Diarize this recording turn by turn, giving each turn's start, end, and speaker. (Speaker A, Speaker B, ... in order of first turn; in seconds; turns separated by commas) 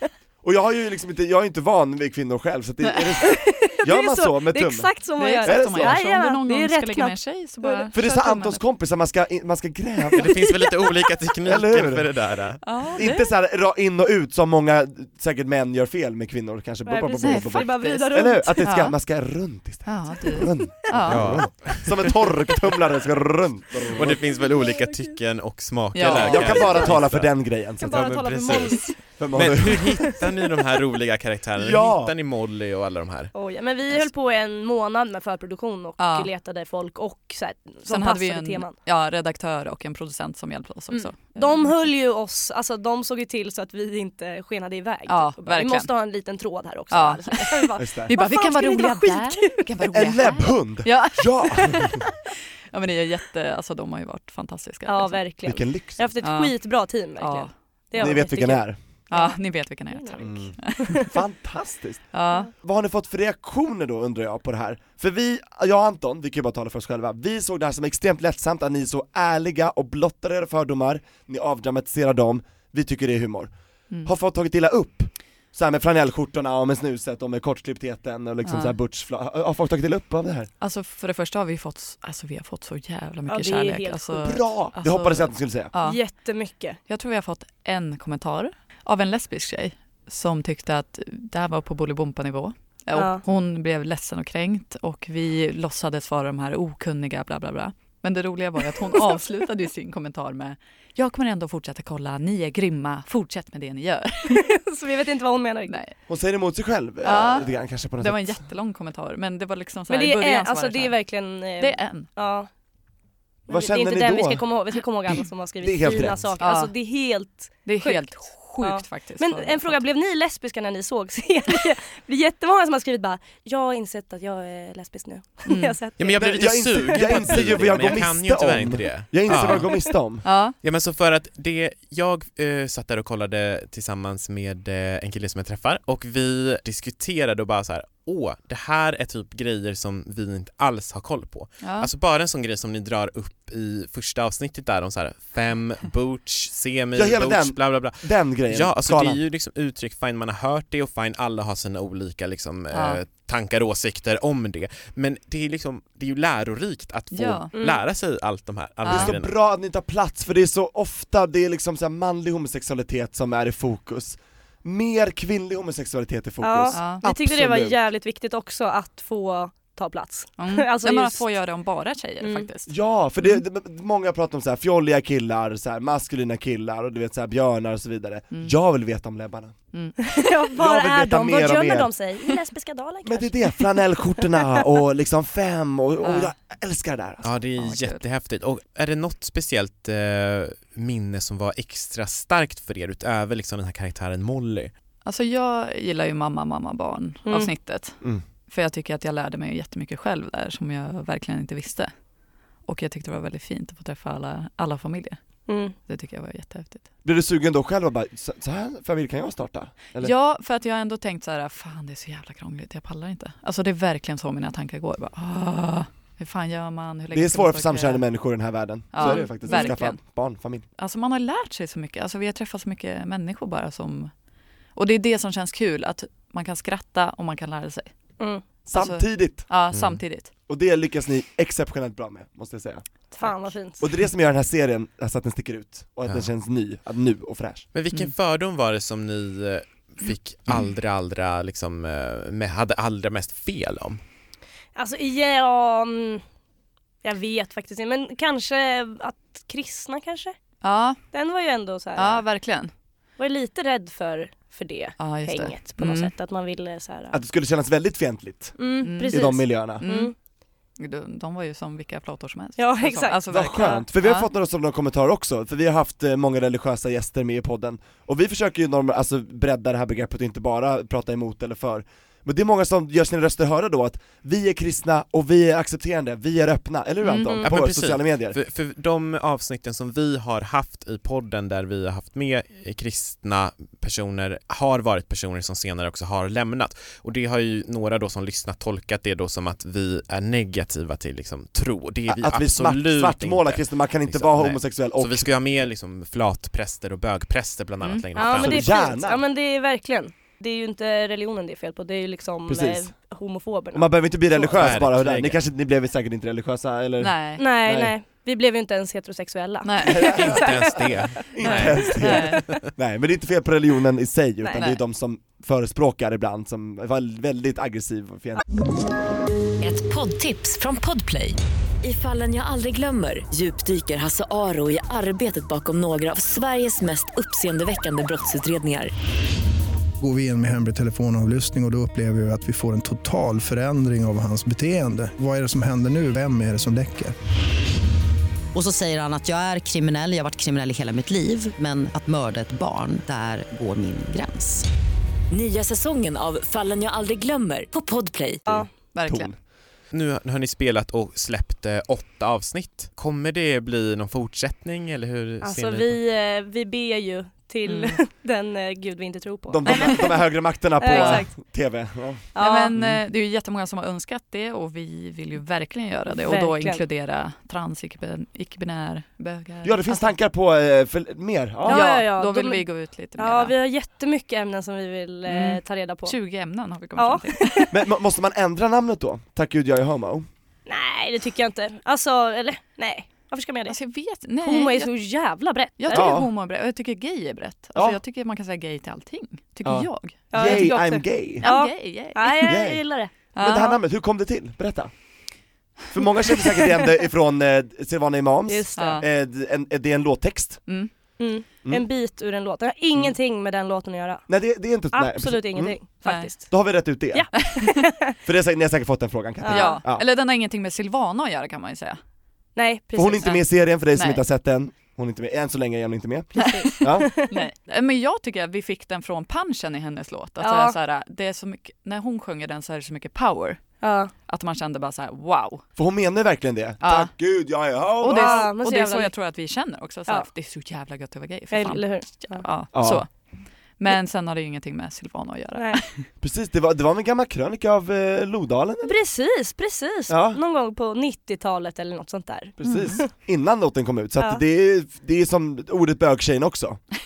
Speaker A: 0.4-6.0, Speaker B: 3.2-8.1, Speaker C: 5.2-8.6, Speaker A: 7.9-10.3, Speaker D: 10.1-12.6, Speaker A: 11.4-12.1, Speaker C: 12.6-13.2, Speaker A: 13.0-24.2, Speaker B: 16.9-18.6, Speaker C: 17.2-19.0, Speaker C: 19.9-21.4, Speaker D: 21.1-22.5, Speaker D: 23.9-33.3, Speaker B: 24.4-25.1, Speaker C: 25.9-26.6, Speaker A: 26.0-28.1, Speaker B: 27.8-29.0, Speaker A: 29.2-30.2, Speaker A: 31.6-32.1, Speaker B: 33.3-38.8, Speaker C: 36.0-36.3, Speaker C: 37.9-41.7, Speaker B: 40.9-50.0, Speaker C: 45.1-45.9, Speaker C: 46.9-52.0, Speaker A: 47.8-48.1, Speaker A: 49.9-52.0, Speaker C: 52.7-55.2, Speaker B: 54.9-59.4, Speaker A: 55.5-56.1, Speaker C: 56.2-57.5, Speaker A: 58.0-58.8, Speaker C: 59.1-61.1, Speaker B: 59.9-61.0, Speaker A: 60.2-73.5, Speaker C: 62.1-62.5, Speaker A: 74.0-80.5, Speaker C: 78.5-78.8, Speaker C: 80.6-86.0, Speaker B: 83.3-84.4, Speaker A: 84.2-85.7, Speaker B: 85.8-86.8, Speaker C: 86.9-104.4, Speaker B: 92.9-93.2, Speaker B: 104.3-105.8, Speaker C: 105.7-106.0, Speaker A: 106.1-108.5, Speaker C: 107.0-111.0, Speaker B: 109.9-112.5, Speaker C: 111.6-112.1, Speaker B: 113.5-126.2, Speaker A: 113.5-114.5, Speaker A: 115.1-116.2, Speaker C: 116.4-116.7, Speaker C: 117.6-119.8, Speaker C: 125.5-125.8, Speaker D: 126.0-129.7, Speaker A: 126.1-130.2, Speaker B: 126.8-127.3, Speaker B: 129.3-129.9, Speaker C: 130.2-130.6, Speaker D: 130.6-159.3, Speaker C: 141.6-141.9, Speaker A: 146.9-149.2, Speaker C: 152.7-153.0, Speaker C: 157.1-157.5, Speaker B: 157.5-157.8, Speaker C: 158.8-159.1, Speaker A: 158.9-167.8, Speaker B: 166.4-171.2, Speaker C: 166.7-167.0, Speaker C: 170.4-173.4, Speaker B: 172.2-172.5, Speaker A: 172.7-179.5, Speaker B: 180.1-183.6, Speaker A: 180.5-181.9, Speaker A: 183.0-187.3, Speaker C: 186.0-186.3, Speaker D: 187.2-194.7, Speaker C: 187.6-188.0, Speaker C: 195.0-201.9, Speaker B: 197.2-197.5, Speaker C: 202.7-205.2, Speaker B: 205.5-205.8, Speaker C: 205.8-206.8, Speaker A: 207.0-210.1, Speaker C: 210.0-218.1, Speaker A: 217.1-220.7, Speaker C: 218.9-220.0, Speaker B: 219.0-219.8, Speaker C: 220.8-224.1, Speaker C: 224.8-227.9, Speaker B: 228.2-228.4, Speaker A: 228.7-229.5, Speaker C: 228.7-230.3, Speaker D: 229.7-230.0, Speaker A: 230.5-232.8, Speaker C: 233.2-233.5, Speaker B: 233.2-233.8, Speaker A: 233.8-237.7, Speaker D: 237.7-244.0, Speaker B: 244.8-246.2, Speaker B: 247.0-250.3, Speaker C: 250.6-251.0, Speaker B: 251.1-252.2, Speaker C: 252.0-252.7, Speaker B: 253.2-257.2, Speaker C: 255.0-256.1, Speaker A: 257.1-259.8, Speaker B: 258.6-260.1, Speaker C: 258.8-260.1, Speaker C: 260.8-264.3, Speaker B: 262.6-263.8, Speaker A: 263.3-278.4, Speaker C: 277.0-277.4, Speaker D: 277.4-298.8, Speaker A: 292.1-295.3, Speaker B: 298.2-304.8, Speaker A: 298.3-299.2, Speaker A: 302.5-302.9, Speaker A: 303.7-307.9, Speaker D: 304.5-305.4, Speaker C: 307.0-307.4, Speaker B: 307.4-310.9, Speaker C: 309.6-310.2, Speaker A: 309.8-318.4, Speaker D: 310.1-312.5, Speaker C: 311.4-312.4, Speaker C: 314.5-314.8, Speaker E: 319.6-328.9, Speaker F: 330.0-337.1, Speaker G: 338.5-344.6, Speaker E: 345.3-348.6, Speaker A: 348.5-349.3, Speaker C: 348.9-349.3, Speaker D: 349.9-356.0, Speaker B: 355.4-360.3, Speaker C: 357.6-358.0, Speaker A: 359.5-362.3, Speaker C: 359.7-360.0, Speaker B: 360.8-361.3, Speaker C: 360.9-361.2, Speaker B: 362.3-362.7, Speaker C: 362.4-370.1, Speaker B: 366.1-366.8, Speaker A: 369.6-371.9, Speaker B: 371.6-376.1, Speaker C: 371.7-373.5, Speaker C: 375.3-377.7, Speaker B: 377.0-377.8, Speaker A: 377.7-380.2, Speaker B: 380.7-383.8, Speaker C: 383.7-384.9, Speaker B: 384.4-386.1, Speaker C: 385.8-390.7, Speaker A: 385.9-386.3, Speaker A: 389.6-391.5, Speaker B: 390.3-393.1, Speaker C: 391.4-392.5, Speaker A: 392.4-392.8, Speaker C: 393.3-393.8, Speaker A: 393.3-394.9, Speaker A: 395.9-400.6, Speaker B: 398.5-399.0, Speaker C: 398.8-399.0, Speaker B: 401.2-404.2, Speaker A: 404.3-405.8, Speaker B: 404.9-406.5, Speaker C: 406.0-406.3, Speaker A: 406.4-407.4, Speaker B: 407.1-408.1, Speaker C: 407.4-407.7, Speaker A: 408.2-410.0, Speaker B: 409.4-409.8, Speaker C: 409.5-412.0, Speaker B: 412.5-413.4, Speaker A: 412.9-417.1, Speaker C: 413.9-414.2, Speaker B: 416.4-417.4, Speaker C: 416.4-423.7, Speaker B: 420.4-420.8, Speaker B: 423.8-424.1, Speaker C: 424.2-425.6, Speaker A: 425.8-428.5, Speaker C: 426.8-427.1, Speaker C: 428.0-433.1, Speaker B: 428.1-429.1, Speaker B: 431.5-432.5, Speaker A: 432.7-433.0, Speaker C: 433.8-436.0, Speaker A: 436.2-439.0, Speaker B: 438.8-443.1, Speaker A: 440.1-440.4, Speaker A: 442.6-446.9, Speaker C: 442.6-443.0